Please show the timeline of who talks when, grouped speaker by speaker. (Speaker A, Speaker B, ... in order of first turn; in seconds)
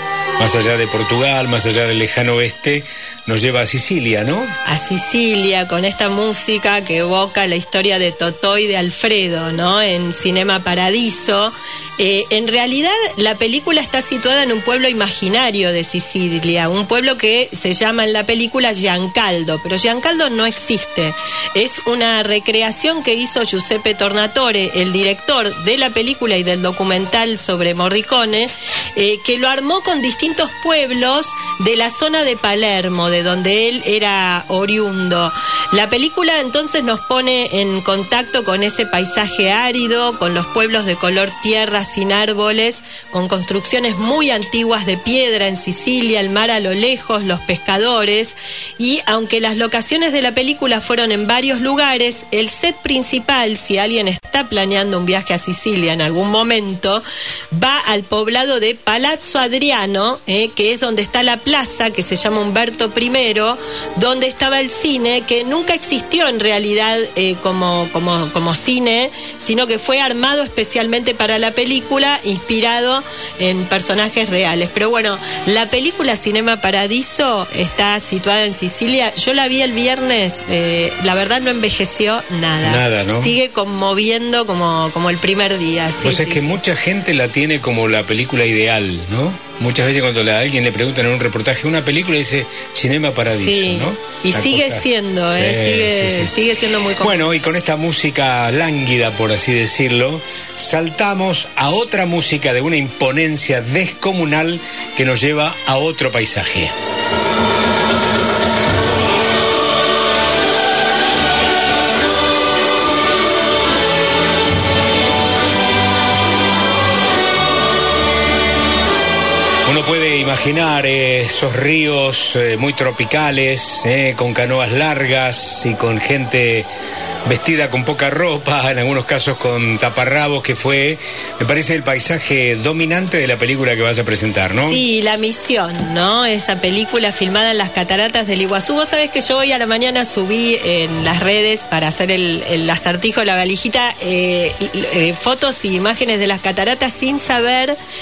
Speaker A: 0.4-4.5, 82.6-83.3, 86.0-96.3, 97.0-106.7, 119.7-126.7, 127.2-134.8
Speaker B: 4.6-86.5, 93.3-97.3, 134.6-147.8